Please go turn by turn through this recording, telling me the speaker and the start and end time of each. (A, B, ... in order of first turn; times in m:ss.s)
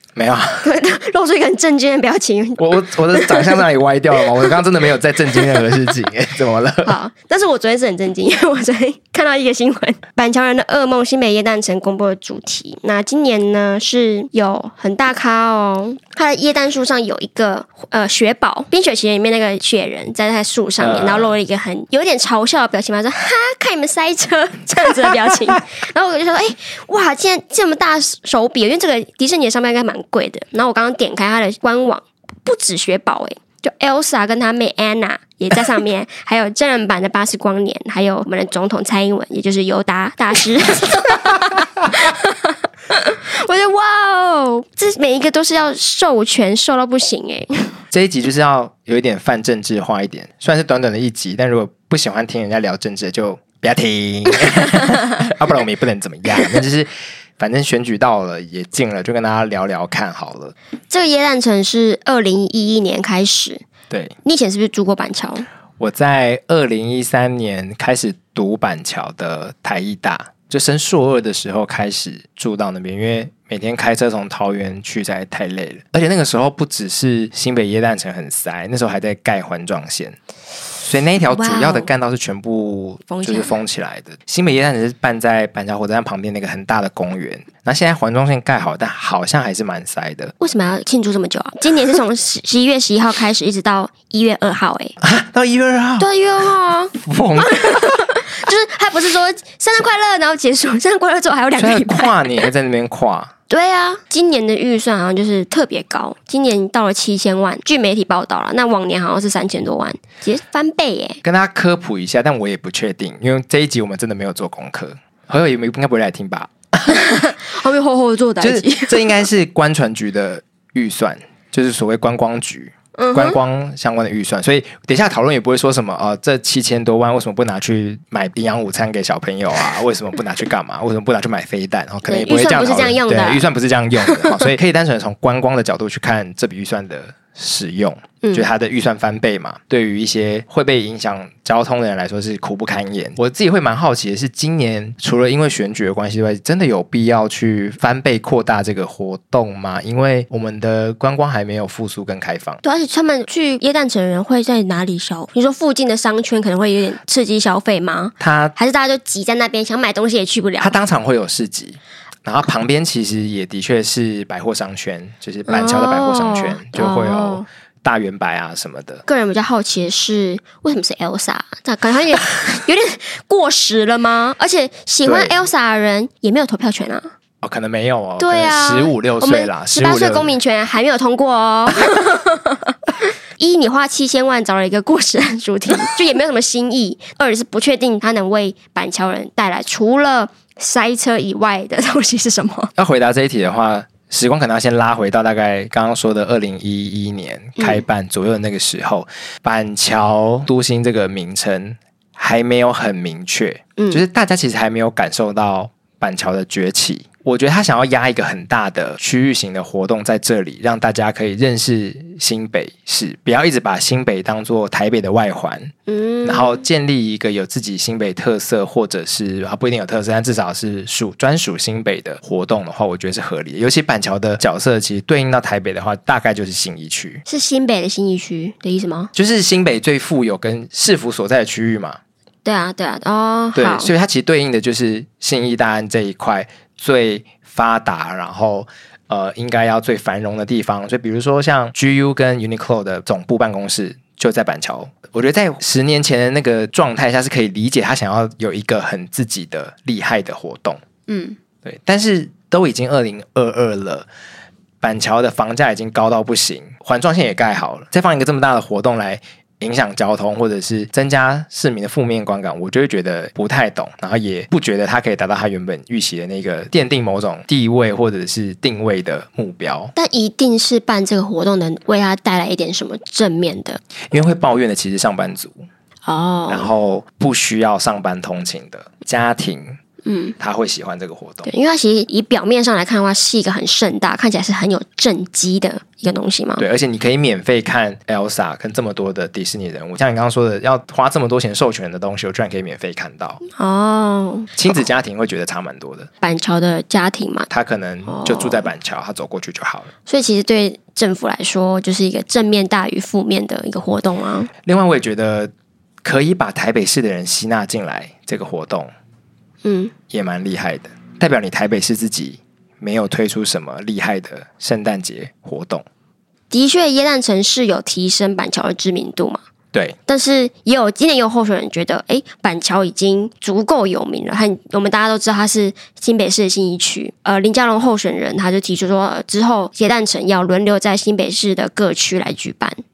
0:00.2-0:00.6 A
0:00.6-0:03.6 B
0:02.6-0:07.0 A
0:04.2-0:04.6 B
0:05.4-0:05.6 B
0:06.9-0:47.8 B
0:20.8-0:21.4 A
0:47.9-1:00.5 A
1:00.9-1:03.6 B
1:03.9-1:04.2 A
1:04.2-1:05.5 B
1:05.8-1:20.2 A
1:20.8-1:30.3 A
1:21.3-1:21.9 B
1:23.1-1:23.6 B
1:30.4-1:35.0 B
1:35.0-1:36.1 A
1:36.0-1:42.5 B
1:37.0-1:37.9 A
1:41.6-1:43.3 A
1:43.5-1:51.2 B
1:51.2-1:56.9 A
1:56.9-1:59.2 B
1:58.4-2:32.6 A
2:03.0-2:03.4 B
2:12.0-2:13.5 B
2:14.0-2:14.5 B
2:18.2-2:18.5 B
2:32.6-2:40.8 B
2:38.2-2:38.5 A
2:40.6-2:49.0 A
2:45.5-2:47.5 B
2:49.1-2:57.1 B
2:55.0-2:55.4 A
2:57.4-3:00.4 A
2:58.2-3:02.8 B
3:03.4-3:12.7 B
3:12.8-3:35.7 A
3:17.6-3:17.8 B
3:23.8-3:24.0 B
3:35.9-3:36.6 B
3:36.2-3:47.2 A
3:47.3-3:49.1 B
3:49.1-3:52.0 A
3:52.4-3:53.9 B
3:53.6-4:10.8 A
4:11.1-4:11.4 B
4:11.6-4:14.1 A
4:14.8-4:29.9 A
4:30.0-4:33.8 B
4:34.1-4:35.6 A
4:36.1-4:36.7 B
4:36.5-4:39.8 A
4:40.0-4:40.4 B
4:40.4-4:41.5 A
4:41.4-4:46.6 B
4:46.6-4:53.4 A
4:53.6-4:54.5 B
4:54.6-4:56.1 A
4:56.2-4:57.5 B
4:57.5-4:59.9 A
4:58.1-4:58.7 B
5:00.1-5:04.5 B
5:04.7-5:05.5 A
5:06.0-5:08.9 A
5:09.6-5:09.9 B
5:10.1-5:15.8 A
5:16.5-5:19.4 B
5:20.1-5:32.8 B